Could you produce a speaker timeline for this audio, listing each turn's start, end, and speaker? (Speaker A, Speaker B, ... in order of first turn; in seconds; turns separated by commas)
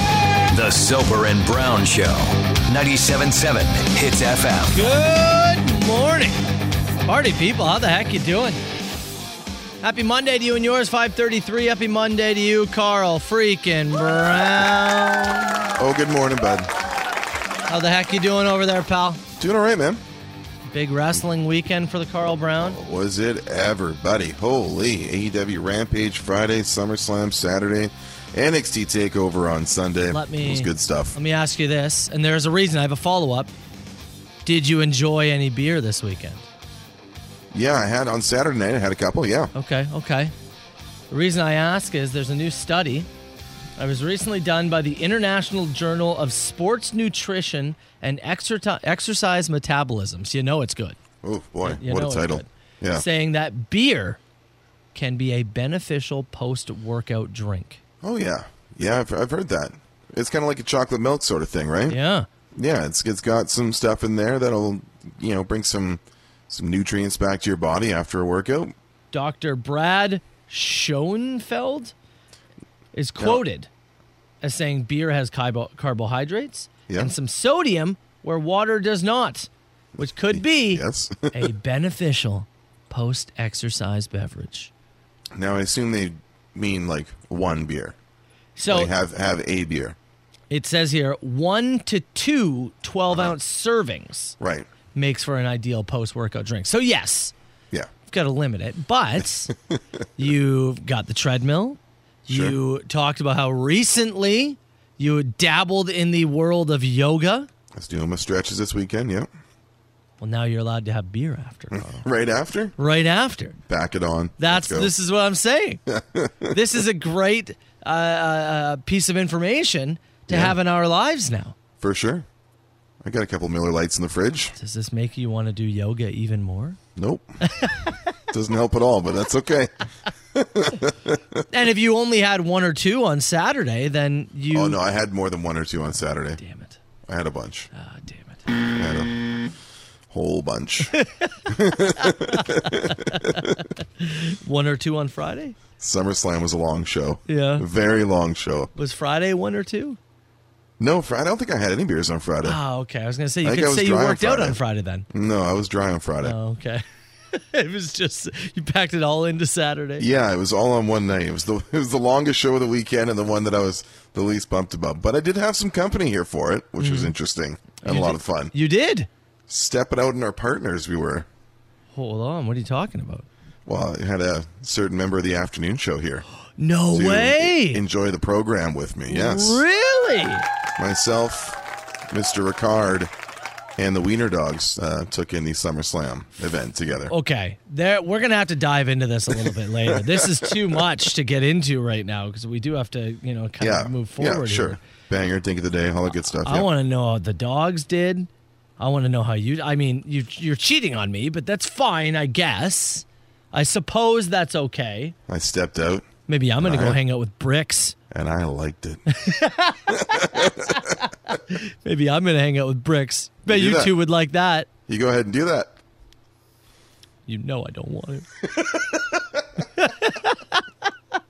Speaker A: 0.5-4.8, Speaker B: 4.7-6.4, Speaker B: 7.1-8.6, Speaker B: 9.8-15.7, Speaker C: 15.8-16.7, Speaker B: 17.7-19.2, Speaker C: 19.4-20.0, Speaker B: 20.7-22.8, Speaker C: 22.6-31.2, Speaker B: 30.1-33.5, Speaker B: 34.5-36.5, Speaker C: 37.5-39.5, Speaker B: 39.5-40.3, Speaker B: 41.1-43.1, Speaker B: 43.8-51.0, Speaker C: 51.2-53.0, Speaker B: 51.6-54.2, Speaker B: 54.9-57.8, Speaker C: 58.0-62.0, Speaker B: 61.9-62.3, Speaker C: 62.5-68.7, Speaker B: 69.1-71.9, Speaker B: 73.0-73.7, Speaker B: 74.4-84.7, Speaker C: 76.9-77.1, Speaker C: 80.0-81.5, Speaker C: 85.3-88.0, Speaker B: 88.6-88.9, Speaker C: 88.7-90.0, Speaker B: 90.5-94.4, Speaker C: 94.4-94.7, Speaker B: 94.9-97.3, Speaker B: 98.1-99.5, Speaker B: 100.2-107.5, Speaker C: 102.3-102.5, Speaker C: 107.7-109.3, Speaker B: 110.2-111.8, Speaker C: 111.7-112.8, Speaker B: 112.8-113.6, Speaker C: 113.7-114.9, Speaker B: 114.4-115.8, Speaker C: 115.9-116.6, Speaker B: 116.5-121.6, Speaker C: 120.3-120.6, Speaker C: 121.8-122.3, Speaker C: 123.0-124.5, Speaker B: 124.6-126.8, Speaker C: 127.0-127.3, Speaker B: 127.4-128.0, Speaker C: 128.3-129.8, Speaker C: 130.3-131.4, Speaker B: 131.5-134.8, Speaker C: 134.5-136.4, Speaker B: 136.4-136.8, Speaker C: 137.1-137.7, Speaker B: 137.7-138.5, Speaker C: 138.7-139.5, Speaker C: 140.1-140.9, Speaker B: 141.0-141.3, Speaker C: 141.5-143.6, Speaker B: 142.0-145.6, Speaker C: 145.8-148.7, Speaker B: 147.3-147.7, Speaker B: 148.8-150.0, Speaker C: 150.8-152.6, Speaker B: 152.4-155.1, Speaker C: 153.4-154.6, Speaker C: 155.1-156.4, Speaker B: 156.2-160.1, Speaker C: 160.0-168.5, Speaker B: 166.8-167.1, Speaker B: 167.8-169.1, Speaker C: 169.5-171.3, Speaker B: 171.9-173.3, Speaker C: 173.7-176.2, Speaker B: 176.6-177.8, Speaker C: 176.9-179.6, Speaker B: 179.1-180.5, Speaker C: 180.8-181.6, Speaker C: 182.1-183.1, Speaker C: 183.8-187.1, Speaker B: 187.1-194.8, Speaker C: 189.9-190.8, Speaker C: 193.6-196.7, Speaker B: 196.4-205.2, Speaker C: 205.3-206.1, Speaker B: 206.3-207.9, Speaker C: 206.6-207.0, Speaker C: 208.1-209.0, Speaker B: 209.1-214.7, Speaker C: 209.9-210.8, Speaker C: 213.5-213.9, Speaker C: 214.9-215.8, Speaker B: 217.3-218.3, Speaker B: 219.8-220.6